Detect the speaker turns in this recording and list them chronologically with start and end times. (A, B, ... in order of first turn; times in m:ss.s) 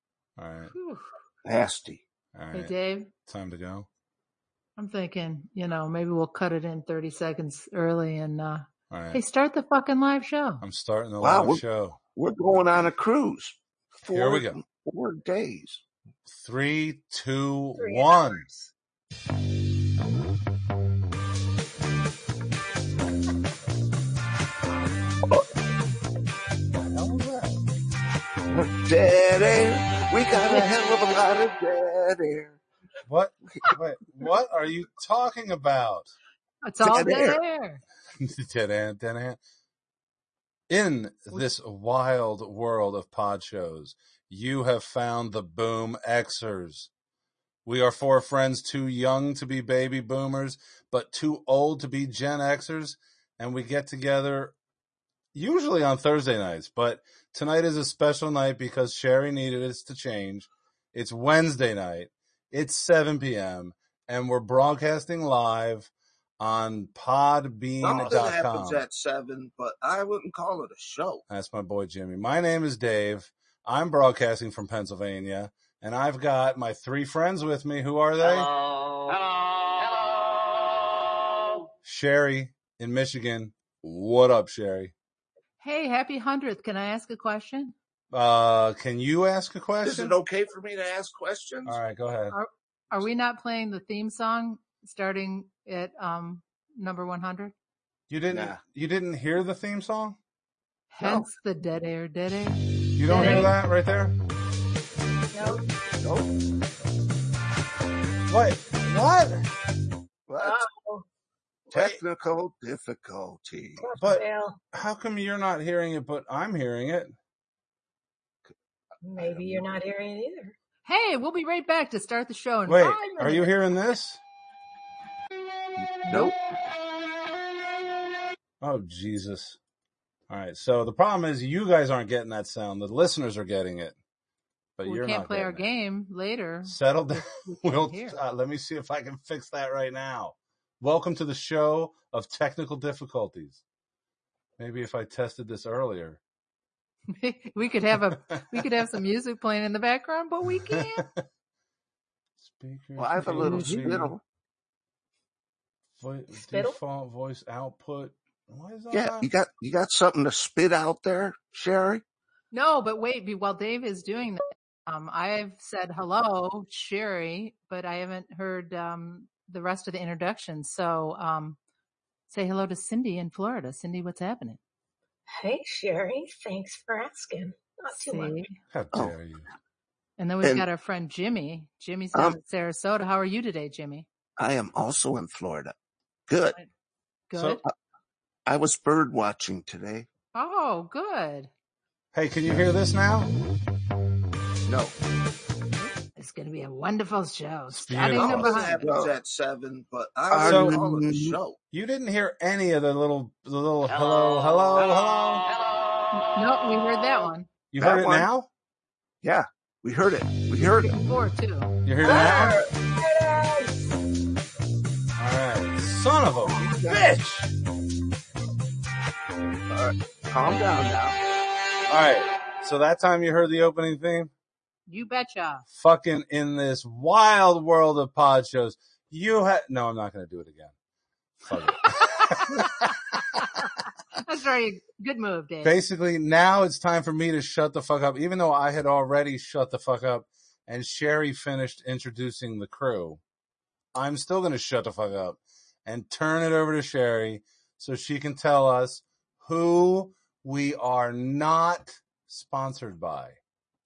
0:00.4-0:00.7 A
0:00.7-0:01.1 B
0:01.4-0:02.0 C
0:02.3-0:02.7 A
0:02.5-0:03.1 B
0:03.2-0:03.9 A
0:04.8-0:10.6 B
0:08.9-0:09.2 A
0:10.6-0:12.0 A
0:11.2-0:11.6 C
0:12.2-0:15.8 C
0:14.1-0:14.6 A
0:16.3-0:18.4 A
0:17.8-0:18.7 D
0:26.7-0:27.6 A
0:28.5-0:32.6 C
0:30.4-0:30.7 B
0:33.1-0:36.1 A
0:36.6-0:37.8 B
0:36.8-0:37.4 C
0:38.2-0:39.4 A
0:40.7-0:46.9 A
0:47.6-0:54.5 A
0:55.3-1:08.8 A
1:07.8-1:11.2 C
1:11.3-1:18.5 A
1:21.8-1:24.9 A
1:25.6-1:27.7 B
1:28.1-1:30.2 A
1:29.8-1:31.8 C
1:31.6-1:32.4 A
1:32.3-1:37.5 B
1:38.1-1:40.2 A
1:38.3-1:38.6 C
1:40.9-1:43.5 B
1:41.0-1:41.3 C
1:43.0-1:44.2 A
1:43.1-1:43.5 D
1:45.3-1:45.6 D
1:46.0-1:46.3 C
1:48.3-1:49.5 A
1:50.3-1:50.6 C
1:50.4-1:51.0 D
1:51.7-1:53.8 C
1:51.7-1:52.0 A
1:53.8-1:54.6 D
1:54.0-1:57.1 A
1:59.0-2:00.5 D
1:59.2-1:59.7 C
2:00.8-2:03.5 B
2:02.7-2:04.2 A
2:05.8-2:06.3 C
2:06.1-2:06.3 B
2:08.6-2:09.6 A
2:10.3-2:14.0 A
2:14.8-2:15.6 A
2:14.8-2:18.2 B
2:16.6-2:23.6 A
2:24.6-2:26.2 A
2:27.1-2:31.1 B
2:30.7-2:31.2 A
2:32.4-2:34.1 A
2:33.0-2:34.2 C
2:33.4-2:33.9 B
2:36.0-2:39.3 A
2:36.4-2:36.8 D
2:38.9-2:42.0 C
2:42.5-2:51.6 B
2:52.3-2:54.6 B
2:55.4-2:58.4 D
2:57.9-2:58.5 B
2:58.7-2:59.4 A
3:00.2-3:04.1 B
3:04.4-3:05.7 C
3:06.3-3:06.6 C
3:07.3-3:07.6 B
3:07.3-3:07.6 A
3:08.4-3:10.1 C
3:10.3-3:11.5 B
3:12.1-3:13.3 A
3:14.6-3:14.9 C
3:15.8-3:19.0 B
3:17.7-3:19.0 A
3:18.1-3:21.5 C
3:20.3-3:25.5 A
3:26.1-3:27.5 B
3:27.7-3:28.5 A
3:27.8-3:28.3 C
3:29.2-3:31.0 C
3:30.6-3:31.7 B
3:31.8-3:32.6 A
3:32.0-3:33.8 D
3:32.2-3:32.6 C
3:35.2-3:37.5 A
3:36.4-3:37.1 C
3:39.7-3:41.2 C
3:41.9-3:44.3 A
3:44.9-3:45.7 B
3:45.7-3:50.7 A
3:51.4-3:52.9 A
3:51.9-3:55.7 B
3:55.6-4:03.2 A
4:03.9-4:13.4 A